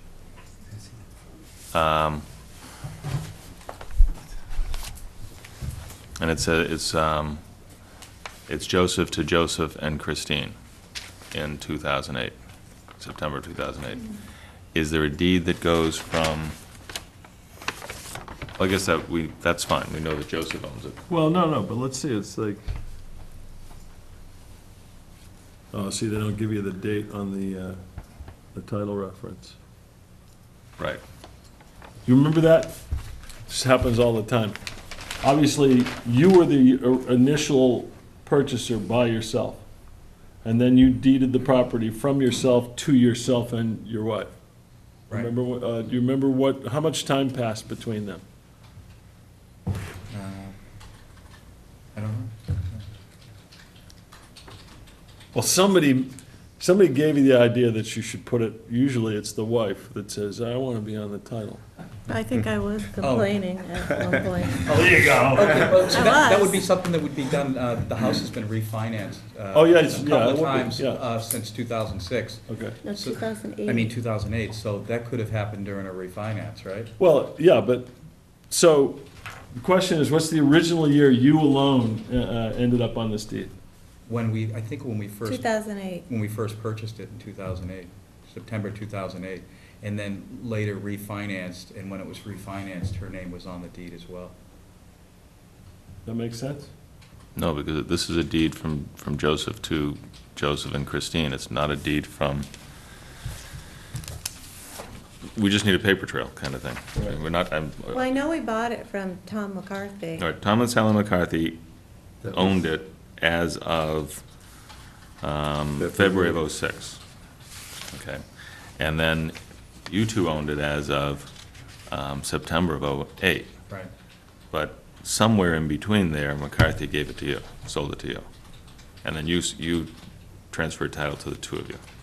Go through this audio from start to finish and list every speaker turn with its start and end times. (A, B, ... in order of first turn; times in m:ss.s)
0:01.7-0:02.2 A
0:06.2-0:07.4 A
0:08.5-0:10.5 A
0:11.3-0:12.3 A
0:13.0-0:14.1 A
0:14.7-0:16.5 A
0:18.6-0:21.0 A
0:21.1-0:22.6 B
0:25.7-0:27.8 B
0:28.5-0:29.6 B
0:32.0-0:32.7 B
0:33.5-0:34.6 B
0:35.2-0:39.6 B
0:40.4-0:44.3 B
0:45.1-0:48.2 B
0:50.1-0:50.5 C
0:51.9-0:52.8 C
0:55.3-1:01.6 B
1:02.1-1:04.6 D
1:03.0-1:03.9 C
1:04.5-1:16.9 C
1:04.6-1:06.0 B
1:05.7-1:06.6 D
1:09.5-1:11.0 B
1:12.5-1:12.8 B
1:12.8-1:13.9 D
1:17.0-1:17.9 B
1:18.5-1:23.5 B
1:24.1-1:34.4 C
1:25.2-1:26.0 D
1:36.0-1:36.7 B
1:37.4-1:42.5 A
1:45.3-1:48.0 A
1:47.9-1:50.2 D
1:50.2-1:51.6 A
1:52.2-1:54.2 A
1:55.2-1:57.0 A
1:57.9-1:58.2 A
1:58.8-2:01.3 A
2:01.9-2:03.5 A
2:04.5-2:08.2 A
2:09.0-2:09.9 A
2:10.5-2:11.8 A